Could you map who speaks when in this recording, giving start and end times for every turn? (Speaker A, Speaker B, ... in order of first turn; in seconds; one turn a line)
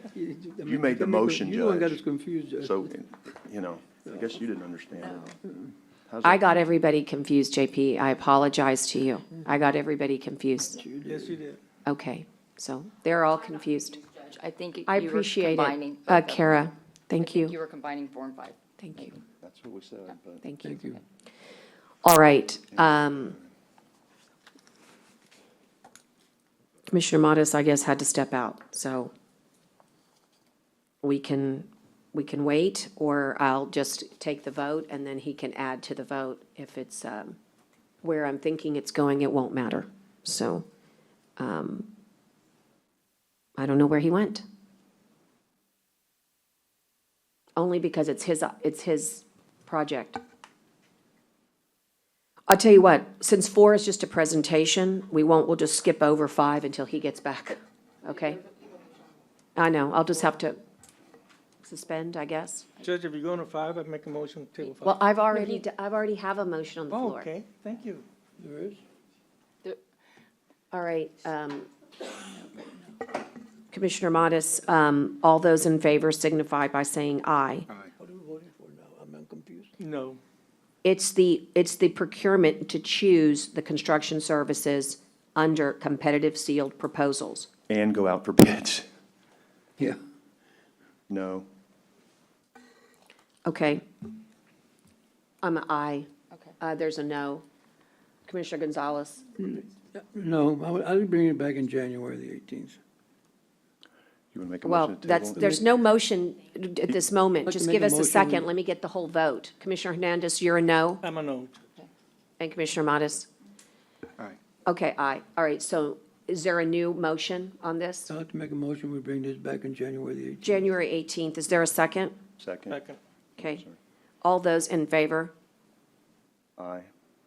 Speaker A: 0.1-2.9
Speaker B: 0.6-2.0
Speaker B: 2.6-5.3
Speaker B: 6.1-6.5
Speaker C: 6.2-10.8
Speaker A: 10.8-11.4
Speaker D: 11.1-11.6
Speaker C: 11.9-14.0
Speaker E: 14.1-16.6
Speaker C: 14.9-17.5
Speaker E: 17.2-18.6
Speaker C: 18.8-19.2
Speaker B: 19.4-20.4
Speaker C: 20.4-20.9
Speaker A: 20.6-21.0
Speaker C: 22.0-23.4
Speaker C: 26.9-29.1
Speaker C: 31.0-37.4
Speaker C: 38.0-40.6
Speaker C: 41.4-41.9
Speaker C: 43.6-44.4
Speaker C: 47.5-50.2
Speaker C: 52.5-58.4
Speaker C: 59.6-60.6
Speaker C: 61.6-62.7
Speaker D: 62.8-65.6
Speaker C: 64.8-67.3
Speaker D: 66.9-68.0
Speaker A: 68.4-68.8
Speaker C: 70.7-71.7
Speaker C: 73.7-77.7
Speaker A: 77.9-79.7
Speaker D: 79.8-80.2
Speaker C: 80.8-87.5
Speaker B: 87.7-88.9
Speaker B: 91.1-91.5
Speaker C: 93.5-93.8
Speaker C: 95.4-96.1
Speaker C: 96.6-97.4
Speaker C: 98.2-99.2
Speaker A: 99.4-102.8
Speaker B: 104.3-105.5
Speaker C: 104.6-111.0
Speaker A: 107.5-108.5
Speaker D: 111.0-111.6
Speaker C: 112.4-113.3
Speaker C: 114.7-118.1
Speaker A: 118.1-120.6
Speaker C: 120.4-122.1
Speaker B: 122.4-122.8
Speaker D: 122.7-123.0
Speaker C: 123.4-123.6
Speaker C: 124.2-125.3
Speaker B: 126.6-126.9